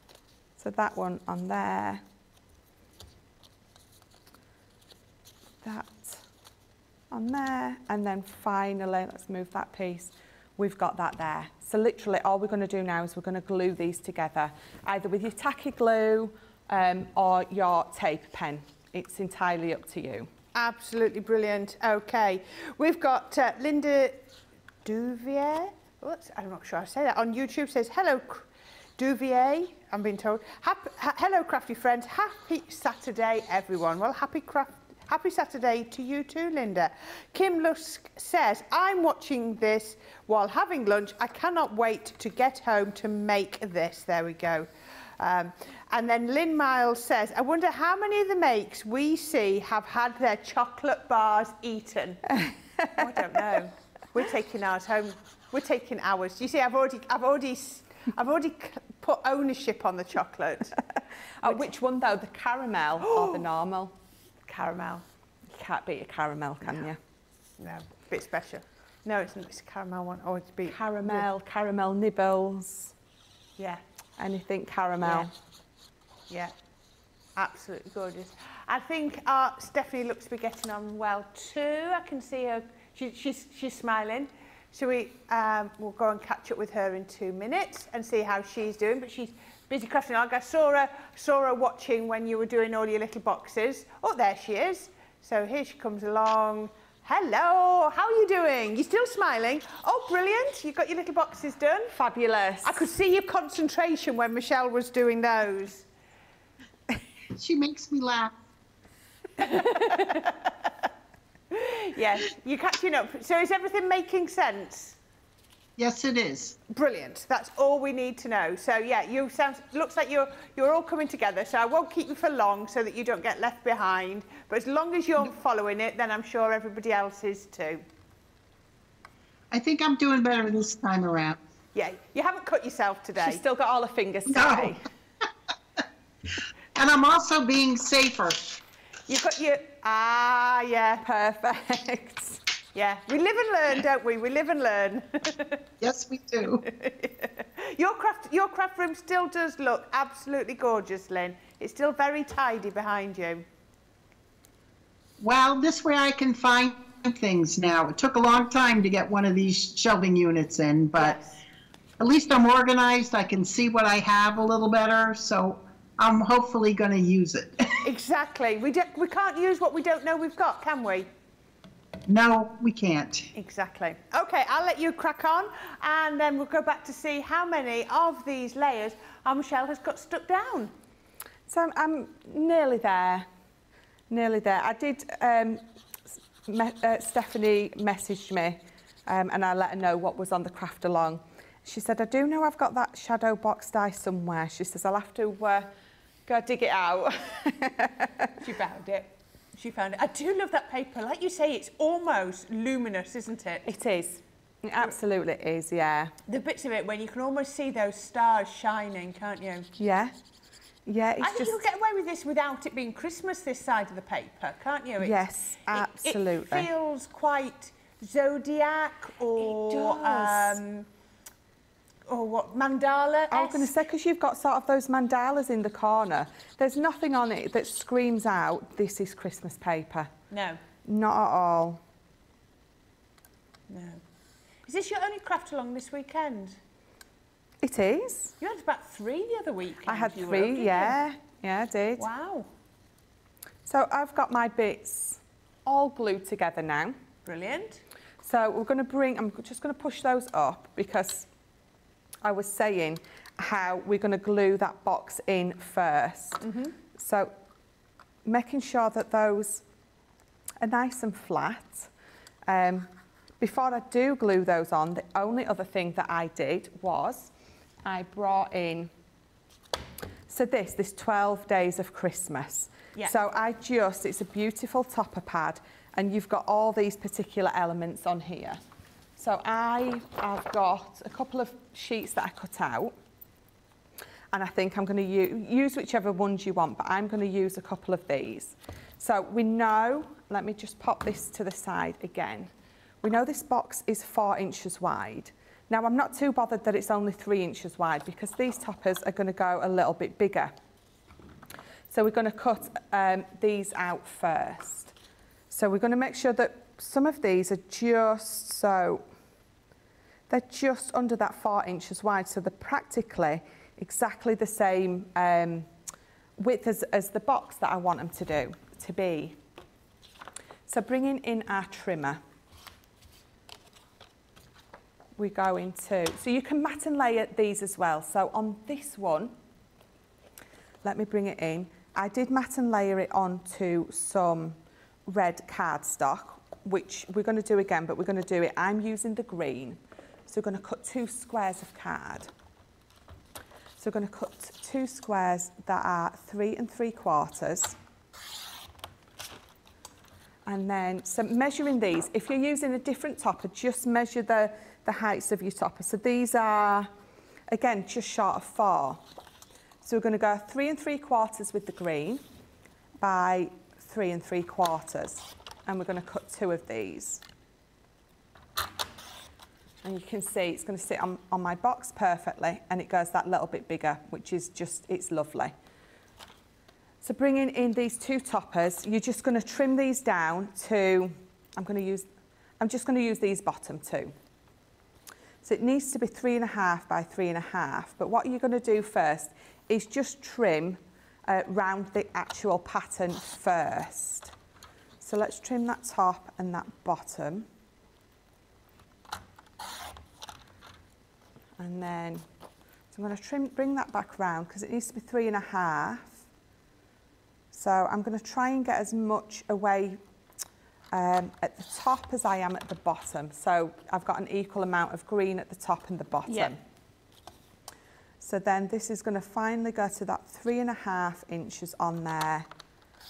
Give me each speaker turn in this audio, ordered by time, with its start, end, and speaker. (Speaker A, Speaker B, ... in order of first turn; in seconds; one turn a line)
Speaker A: 0.6-2.0
Speaker A: 5.6-6.2
Speaker A: 7.1-20.3
Speaker B: 20.5-24.3
Speaker B: 24.9-28.5
Speaker B: 29.0-44.7
Speaker B: 45.2-52.4
Speaker A: 52.3-53.4
Speaker B: 53.0-60.8
Speaker A: 61.4-64.0
Speaker B: 63.0-63.4
Speaker B: 64.5-65.0
Speaker A: 65.5-67.0
Speaker B: 67.6-71.3
Speaker A: 70.7-72.9
Speaker A: 74.2-75.3
Speaker B: 75.0-75.3
Speaker B: 77.4-101.9
Speaker A: 101.9-102.9
Speaker B: 102.6-105.9
Speaker C: 107.3-108.3
Speaker B: 109.4-110.5
Speaker B: 111.5-115.0
Speaker C: 115.8-116.6
Speaker B: 116.7-127.8
Speaker C: 129.5-131.4
Speaker B: 131.8-133.4
Speaker A: 133.2-134.8
Speaker C: 134.3-134.7
Speaker C: 136.8-138.6
Speaker B: 139.1-141.1
Speaker A: 141.0-142.4
Speaker B: 142.8-145.6
Speaker C: 145.8-146.6
Speaker B: 146.6-153.4
Speaker C: 155.2-161.2
Speaker B: 161.0-161.3
Speaker C: 162.0-167.7
Speaker B: 167.8-171.1
Speaker C: 172.1-173.3
Speaker B: 173.3-180.7
Speaker A: 181.5-183.3
Speaker A: 184.1-185.6
Speaker A: 186.4-195.7
Speaker A: 196.3-198.3
Speaker B: 198.4-203.7
Speaker A: 203.7-206.1
Speaker B: 206.3-209.7
Speaker A: 209.8-210.2
Speaker A: 210.9-211.6
Speaker B: 211.2-220.9
Speaker A: 215.0-216.7
Speaker A: 219.4-220.6
Speaker B: 222.1-223.7
Speaker A: 223.3-230.1
Speaker B: 230.3-230.6
Speaker A: 230.8-231.8
Speaker B: 233.7-234.0
Speaker B: 234.7-236.6
Speaker A: 237.6-238.4
Speaker B: 238.4-241.0
Speaker A: 239.9-242.1
Speaker B: 242.0-242.5
Speaker A: 243.7-247.0
Speaker B: 247.3-247.8
Speaker A: 248.2-251.3
Speaker A: 252.2-257.3
Speaker B: 256.4-256.8
Speaker A: 258.2-259.6
Speaker A: 260.6-261.9
Speaker A: 262.5-267.3
Speaker A: 267.8-268.9
Speaker A: 270.3-278.6
Speaker A: 279.2-282.9
Speaker A: 284.3-300.6
Speaker A: 301.9-304.9
Speaker A: 305.5-309.1
Speaker A: 310.3-315.7
Speaker A: 316.4-319.4
Speaker A: 320.7-322.2
Speaker A: 325.2-329.4
Speaker A: 330.8-342.3
Speaker A: 343.8-347.8
Speaker A: 350.5-356.9
Speaker A: 357.5-359.0
Speaker A: 359.8-362.2
Speaker A: 363.0-367.2
Speaker A: 369.8-375.6
Speaker A: 377.0-382.1
Speaker A: 382.6-384.1
Speaker A: 385.4-394.3
Speaker A: 395.0-397.5
Speaker A: 401.6-402.2
Speaker A: 402.9-406.2
Speaker A: 407.5-410.0
Speaker A: 410.9-416.6
Speaker B: 416.3-416.6
Speaker A: 418.2-422.5